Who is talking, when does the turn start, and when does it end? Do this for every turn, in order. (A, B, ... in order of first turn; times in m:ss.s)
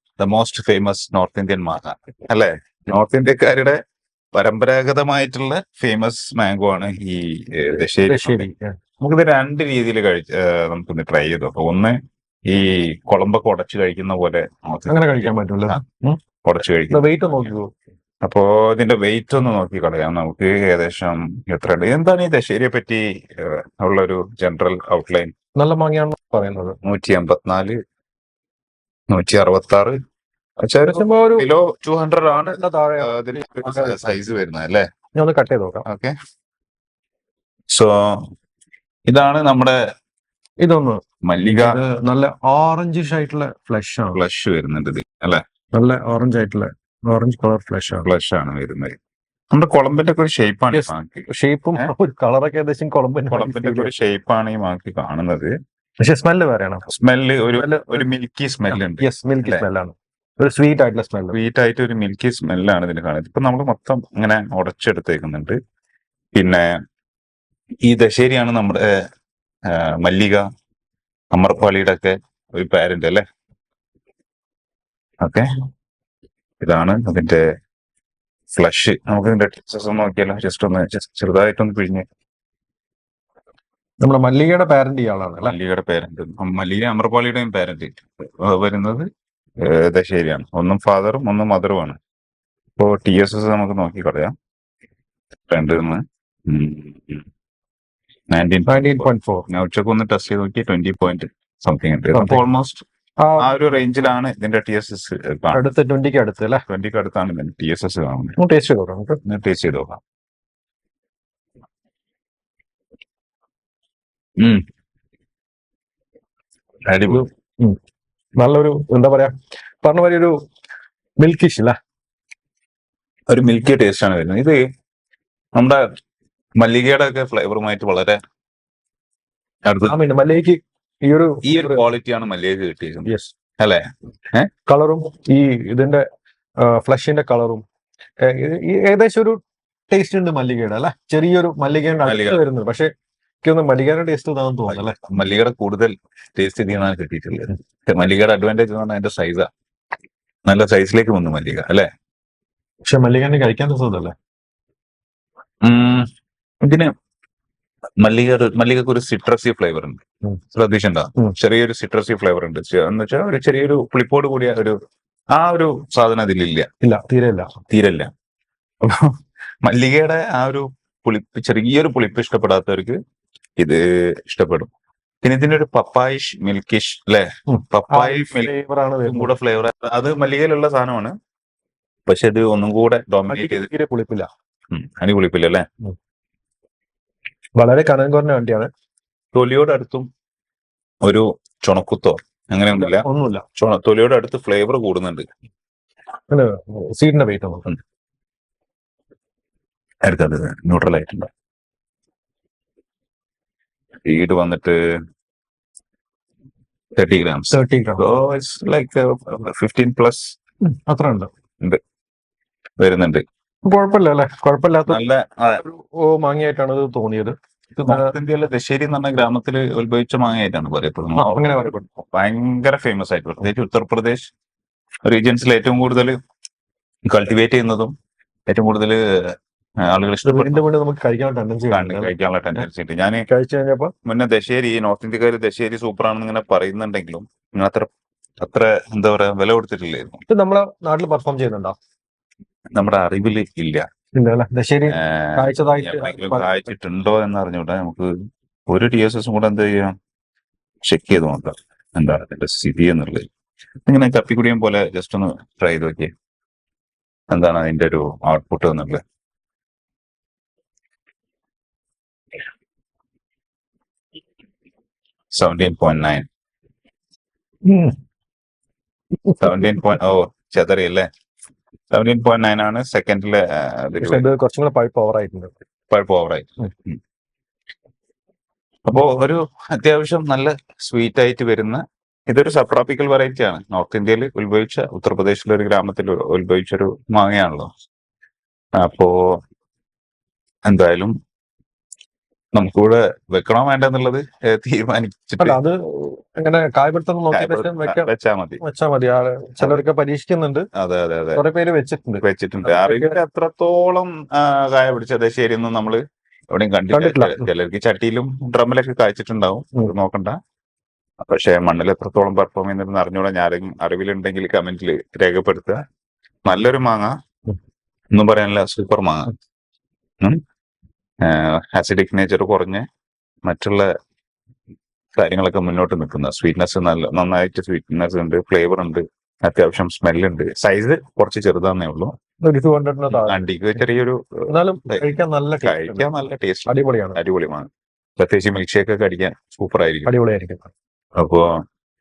0:00.2-0:03.8 A
0:04.3-0:08.5 A
0:07.8-0:08.8 B
0:09.0-0:15.8 A
0:14.9-0:16.2 B
0:16.4-0:17.5 A
0:16.9-0:17.7 B
0:18.2-0:25.3 A
0:25.6-0:26.8 B
0:26.8-0:27.8 A
0:29.1-0:30.0 A
0:30.6-0:34.8 A
0:30.8-0:31.5 B
0:32.3-0:34.2 B
0:35.2-0:35.8 B
0:35.8-0:36.1 A
0:37.7-0:38.3 A
0:39.1-0:39.8 A
0:40.6-0:44.2 B
0:41.2-0:41.8 A
0:44.1-0:45.4 A
0:45.7-0:48.1 B
0:48.0-0:49.0 A
0:49.5-0:51.9 A
0:50.7-0:53.9 B
0:53.3-0:55.5 A
0:56.0-0:56.9 B
0:56.9-0:59.6 A
0:57.6-0:58.0 B
0:58.7-1:01.4 B
1:01.3-1:05.6 A
1:06.3-1:06.7 A
1:07.8-1:08.9 A
1:09.7-1:10.4 A
1:11.3-1:13.2 A
1:16.6-1:17.4 A
1:18.5-1:22.0 A
1:24.0-1:25.6 B
1:25.4-1:29.1 A
1:29.6-1:32.0 A
1:32.8-1:34.3 A
1:35.5-1:37.2 A
1:38.3-1:42.8 A
1:38.7-1:39.5 B
1:42.1-1:42.4 B
1:43.2-1:43.5 B
1:43.4-1:45.7 A
1:45.5-1:46.6 B
1:46.7-1:48.4 A
1:48.4-1:49.2 B
1:49.2-1:50.0 A
1:56.9-1:57.3 A
1:57.1-1:57.8 B
1:58.4-2:00.4 B
2:01.2-2:01.8 B
2:03.3-2:04.6 A
2:05.5-2:05.9 A
2:06.6-2:08.2 A
2:09.6-2:10.0 A
2:09.9-2:11.8 B
2:11.4-2:14.5 A
2:13.0-2:13.3 B
2:14.6-2:16.0 B
2:16.6-2:17.6 B
2:18.2-2:22.9 B
2:22.0-2:22.4 A
2:23.4-2:25.0 B
2:24.7-2:29.5 A
2:30.5-2:31.9 A
2:32.8-2:34.1 B
2:35.6-2:36.1 A
2:36.6-2:36.9 A
2:38.0-2:40.0 A
2:40.5-2:44.8 A
2:45.3-2:46.7 A
2:46.8-2:47.6 B
2:47.7-2:48.1 A
2:48.8-2:49.1 A
2:49.6-2:53.0 A
2:53.6-2:54.7 A
2:55.2-2:58.5 A
2:57.5-2:59.3 B
2:59.0-3:01.1 A
3:02.1-3:03.7 A
3:03.3-3:04.3 B
3:04.7-3:05.6 A
3:07.6-3:08.7 B
3:09.3-3:10.1 A
3:11.0-3:15.3 A
3:12.7-3:13.4 B
3:16.3-3:17.7 B
3:20.0-3:21.3 A
3:24.0-3:24.8 A
3:27.0-3:30.3 A
3:27.5-3:28.1 B
3:30.6-3:31.3 B
3:32.8-3:33.2 A
3:33.6-3:37.4 B
3:34.9-3:35.6 A
3:37.8-3:44.2 A
3:41.2-3:41.8 B
3:45.0-3:46.2 A
3:47.1-3:47.9 A
3:48.5-3:50.6 A
3:50.2-3:52.1 B
3:51.7-3:53.2 A
3:53.3-3:53.9 B
3:54.0-3:57.9 A
3:58.4-4:00.2 A
4:00.3-4:01.8 B
4:02.7-4:03.9 A
4:04.1-4:06.7 B
4:04.9-4:08.1 A
4:08.7-4:09.9 A
4:10.8-4:13.3 A
4:13.9-4:16.1 A
4:17.3-4:19.0 A
4:25.3-4:26.2 A
4:27.6-4:28.0 B
4:29.4-4:31.1 A
4:31.9-4:34.3 A
4:34.0-4:35.5 B
4:35.9-4:37.0 A
4:38.8-4:47.7 A
4:48.8-4:49.4 A
4:50.6-4:51.1 A
4:52.5-4:55.6 A
4:55.4-4:58.1 B
4:57.3-4:58.6 A
4:58.6-5:00.7 B
5:00.7-5:01.4 A
5:01.3-5:03.2 B
5:02.2-5:10.4 A
5:06.9-5:07.5 B
5:11.2-5:15.8 A
5:16.4-5:17.1 A
5:18.1-5:19.3 A
5:21.2-5:22.8 A
5:23.4-5:23.9 A
5:25.2-5:32.1 A
5:32.4-5:33.5 B
5:33.1-5:35.0 A
5:34.5-5:36.1 B
5:35.6-5:40.1 A
5:36.7-5:37.2 B
5:40.0-5:40.7 B
5:41.2-5:41.6 A